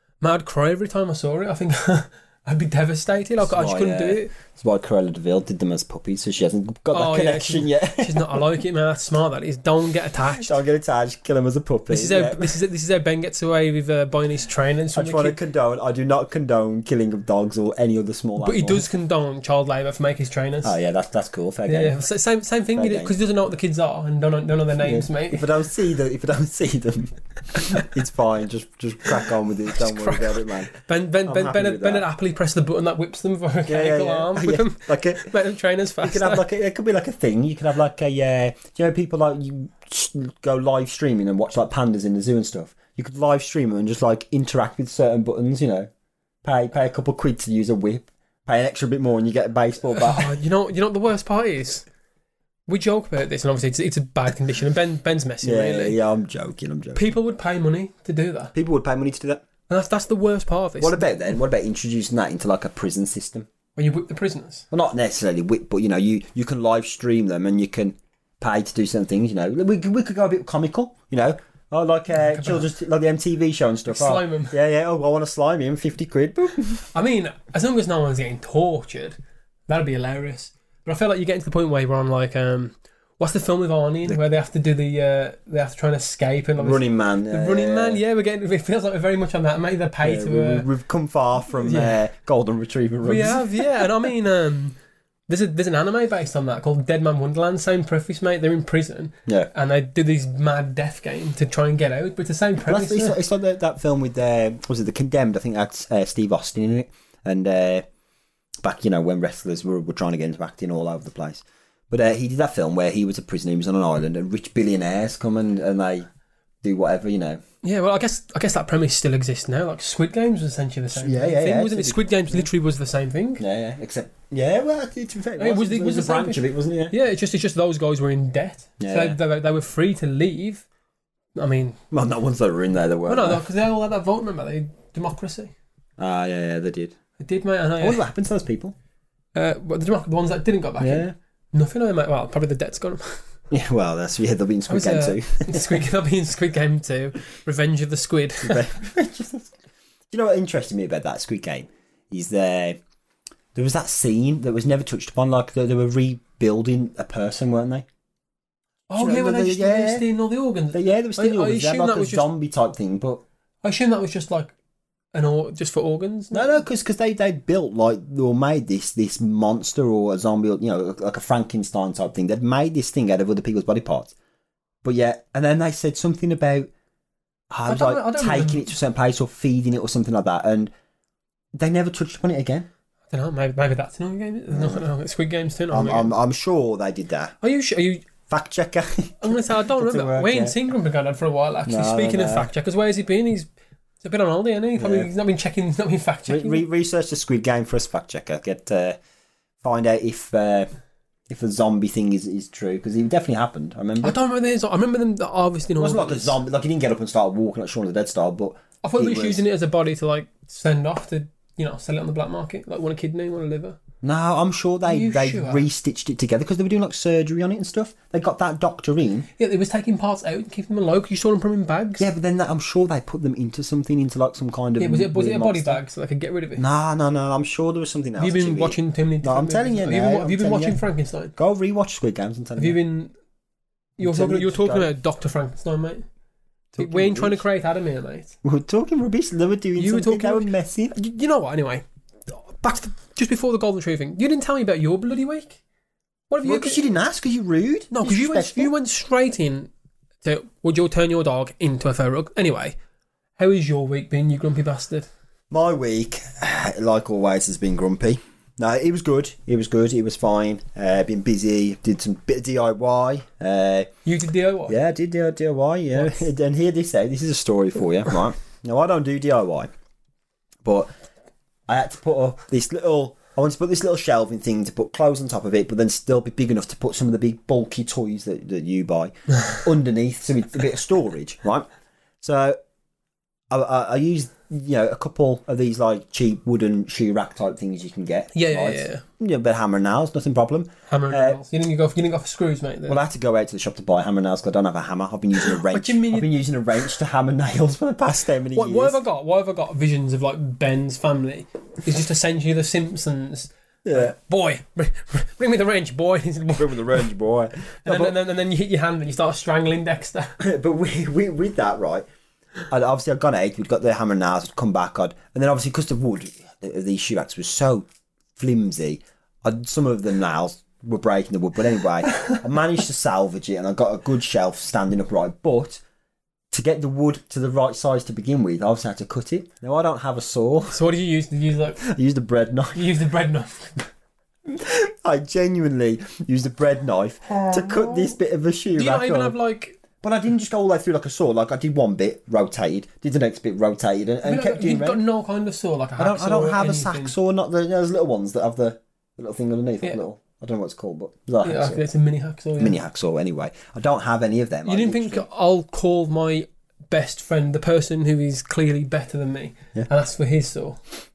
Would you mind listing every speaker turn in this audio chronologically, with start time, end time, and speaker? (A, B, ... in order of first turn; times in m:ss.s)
0:00.2-0:04.3 A
0:03.4-0:08.4 B
0:06.9-0:10.5 A
0:10.3-0:12.6 B
0:11.9-0:15.4 A
0:14.9-0:18.9 B
0:18.4-0:20.8 A
0:20.6-0:22.0 B
0:21.7-0:25.5 A
0:22.8-0:23.1 B
0:24.8-0:30.8 B
0:29.7-0:36.4 A
0:31.3-0:32.1 B
0:33.7-0:35.3 B
0:36.0-0:45.9 B
0:46.4-0:50.4 B
0:49.9-0:51.8 A
0:52.7-0:56.0 A
0:55.4-0:57.1 B
0:57.0-0:58.5 A
0:58.5-0:59.4 B
0:59.7-1:01.2 A
1:00.8-1:03.5 B
1:03.8-1:04.7 A
1:04.7-1:16.9 B
1:12.3-1:12.6 A
1:13.9-1:14.6 A
1:16.9-1:19.2 A
1:19.7-1:30.7 A
1:26.6-1:28.0 B
1:30.0-1:33.9 B
1:31.6-1:32.0 A
1:33.0-1:34.8 A
1:35.3-1:43.2 A
1:42.7-1:47.8 B
1:48.6-1:56.1 B
1:56.6-1:57.4 B
1:57.6-2:03.4 A
2:01.0-2:02.5 B
2:03.4-2:07.0 B
2:05.4-2:10.6 A
2:08.8-2:09.2 B
2:11.4-2:11.8 A
2:11.9-2:13.4 B
2:13.1-2:15.5 A
2:16.0-2:17.0 B
2:17.2-2:18.0 A
2:17.8-2:18.8 B
2:19.4-2:23.2 A
2:20.8-2:21.2 B
2:23.5-2:25.6 B
2:24.7-2:28.7 A
2:28.4-2:29.6 B
2:30.1-2:32.8 B
2:33.6-2:37.9 B
2:38.9-2:42.3 A
2:39.0-2:40.0 B
2:40.7-2:43.2 B
2:43.6-2:44.5 A
2:45.1-2:46.6 A
2:46.3-2:54.1 B
2:54.8-2:56.7 B
2:57.5-3:00.7 B
2:57.7-2:58.7 A
3:01.6-3:02.7 B
3:03.1-3:06.1 A
3:04.5-3:04.8 B
3:05.7-3:07.4 B
3:07.4-3:08.1 A
3:08.3-3:10.6 B
3:09.2-3:13.5 A
3:11.7-3:12.5 B
3:14.0-3:16.6 A
3:14.8-3:15.1 B
3:16.3-3:19.0 B
3:19.6-3:20.7 B
3:21.3-3:24.2 B
3:24.0-3:26.4 A
3:25.8-3:29.4 B
3:28.8-3:33.8 A
3:34.0-3:39.3 B
3:34.9-3:35.7 A
3:39.4-3:42.0 A
3:42.0-3:45.8 B
3:44.8-3:46.6 A
3:46.6-3:50.8 B
3:48.2-3:51.3 A
3:51.4-3:52.8 B
3:52.6-3:53.2 A
3:54.0-3:56.1 A
3:54.0-3:54.9 B
3:56.8-3:57.4 B
3:56.8-3:58.4 A
3:58.4-4:01.0 B
3:59.8-4:05.6 A
4:06.3-4:06.9 A
4:06.4-4:08.7 B
4:07.9-4:09.7 A
4:10.2-4:12.8 A
4:13.4-4:15.1 A
4:15.5-4:23.9 B
4:24.0-4:24.8 A
4:24.7-4:29.7 B
4:26.0-4:26.2 A
4:30.6-4:30.9 B
4:31.7-4:41.7 B
4:42.2-4:42.6 B
4:43.5-4:51.4 B
4:48.3-4:49.0 A
4:50.9-4:53.0 A
4:52.9-4:59.0 B
4:55.4-4:56.3 A
4:58.6-5:07.1 A
5:03.8-5:04.1 B
5:06.6-5:08.2 B
5:07.8-5:10.4 A
5:10.4-5:12.0 B
5:12.7-5:25.8 B
5:26.5-5:30.8 B
5:30.7-5:31.8 A
5:31.8-5:32.9 B
5:32.8-5:33.9 A
5:34.5-5:39.4 B
5:37.3-5:38.2 A
5:38.8-5:39.8 A
5:40.0-5:45.0 B
5:44.2-5:47.1 A
5:46.0-5:51.8 B
5:51.4-5:52.8 A
5:52.6-5:55.3 B
5:54.7-6:00.8 A